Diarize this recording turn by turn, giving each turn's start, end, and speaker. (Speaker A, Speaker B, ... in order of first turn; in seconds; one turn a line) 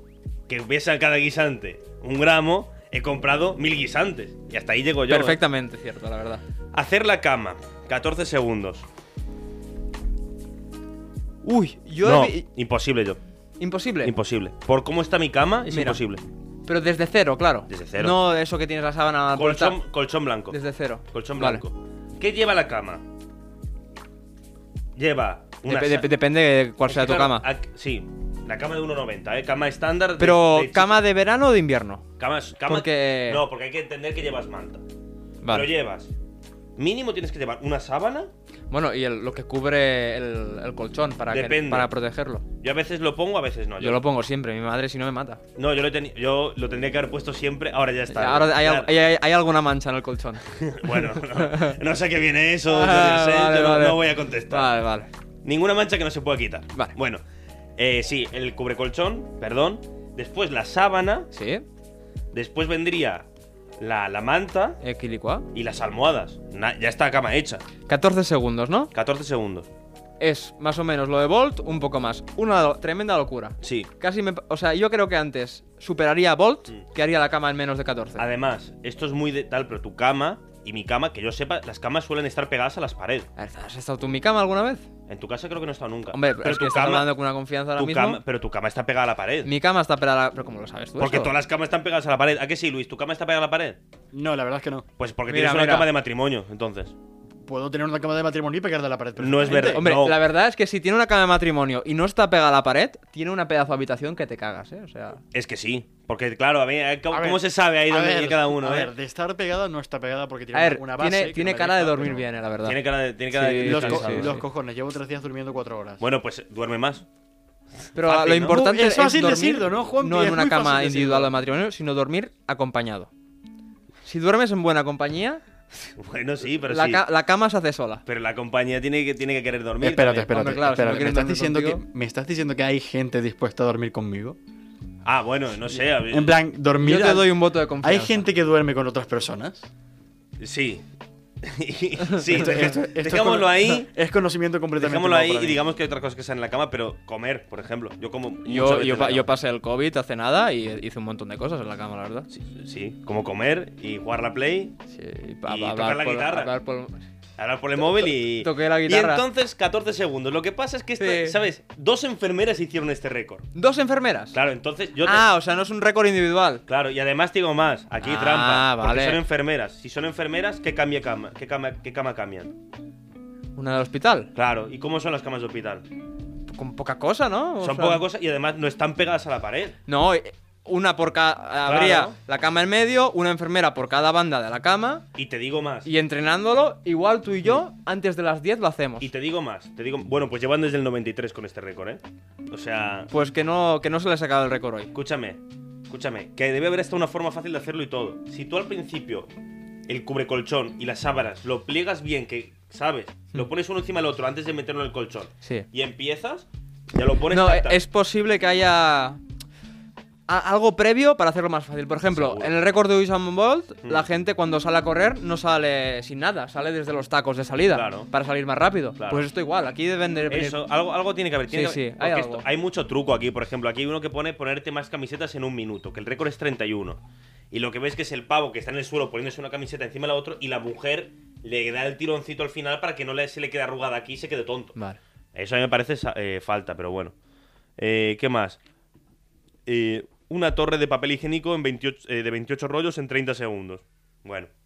Speaker A: 0.5-5.4
Speaker B: 5.1-6.4
Speaker A: 6.7-8.9
Speaker B: 11.4-12.5
Speaker A: 12.0-13.2
Speaker B: 13.6-14.2
Speaker A: 14.0-16.2
Speaker B: 15.7-16.0
Speaker B: 16.7-19.8
Speaker A: 17.7-18.2
Speaker A: 19.3-20.6
Speaker B: 20.5-21.6
Speaker A: 21.1-23.0
Speaker A: 24.9-26.1
Speaker B: 25.7-27.5
Speaker A: 26.9-31.0
Speaker B: 30.2-32.1
Speaker A: 32.2-34.8
Speaker B: 32.7-33.4
Speaker B: 35.4-35.7
Speaker A: 35.5-36.1
Speaker A: 36.8-38.3
Speaker B: 38.7-42.5
Speaker A: 41.3-41.9
Speaker A: 42.6-44.0
Speaker B: 43.8-45.4
Speaker A: 45.6-48.9
Speaker B: 48.1-51.8
Speaker A: 50.5-54.7
Speaker B: 52.7-55.1
Speaker A: 55.4-57.2
Speaker A: 57.8-61.3
Speaker B: 61.3-61.6
Speaker A: 62.3-63.3
Speaker A: 63.8-64.8
Speaker B: 64.8-65.5
Speaker A: 65.5-67.6
Speaker B: 67.9-68.9
Speaker A: 68.9-69.7
Speaker B: 70.2-78.2
Speaker A: 73.6-73.9
Speaker A: 78.2-83.3
Speaker B: 83.4-84.9
Speaker A: 85.1-87.2
Speaker B: 86.1-88.2
Speaker A: 87.8-89.5
Speaker B: 89.5-91.3
Speaker A: 91.0-93.8
Speaker C: 94.1-94.9
Speaker A: 95.0-96.9
Speaker B: 95.3-95.9
Speaker C: 97.4-99.9
Speaker A: 99.2-100.2
Speaker B: 99.6-105.2
Speaker A: 105.3-108.9
Speaker C: 107.1-112.3
Speaker B: 110.5-114.4
Speaker A: 112.6-114.4
Speaker C: 113.6-116.0
Speaker A: 116.0-117.0
Speaker A: 118.0-118.6
Speaker B: 118.0-123.1
Speaker C: 118.5-121.3
Speaker B: 124.0-125.4
Speaker A: 126.0-127.1
Speaker B: 126.7-128.0
Speaker A: 128.1-130.6
Speaker C: 129.8-134.4
Speaker B: 130.3-131.8
Speaker A: 135.1-136.4
Speaker C: 136.1-139.7
Speaker B: 136.8-138.2
Speaker A: 140.4-140.8
Speaker A: 141.4-143.9
Speaker C: 142.3-145.6
Speaker A: 144.8-149.3
Speaker B: 148.5-152.3
Speaker A: 152.3-154.8
Speaker B: 154.9-157.1
Speaker A: 155.5-156.5
Speaker A: 157.4-163.5
Speaker B: 158.0-159.2
Speaker B: 161.0-161.4
Speaker B: 163.6-164.4
Speaker A: 164.3-165.3
Speaker B: 165.0-166.6
Speaker A: 166.7-172.5
Speaker B: 168.0-169.2
Speaker B: 173.6-174.3
Speaker A: 174.3-175.9
Speaker B: 176.5-178.1
Speaker A: 177.6-179.8
Speaker B: 179.9-185.1
Speaker A: 181.6-182.2
Speaker A: 185.2-185.9
Speaker B: 185.8-189.1
Speaker A: 189.0-193.1
Speaker B: 193.1-194.9
Speaker A: 194.9-199.3
Speaker A: 199.9-207.8
Speaker B: 207.3-209.2
Speaker B: 210.3-220.6
Speaker A: 212.1-212.6
Speaker A: 217.7-218.1
Speaker A: 219.0-219.3
Speaker A: 220.3-234.8
Speaker B: 221.5-222.4
Speaker A: 235.3-237.2
Speaker A: 237.8-238.6
Speaker A: 239.7-244.5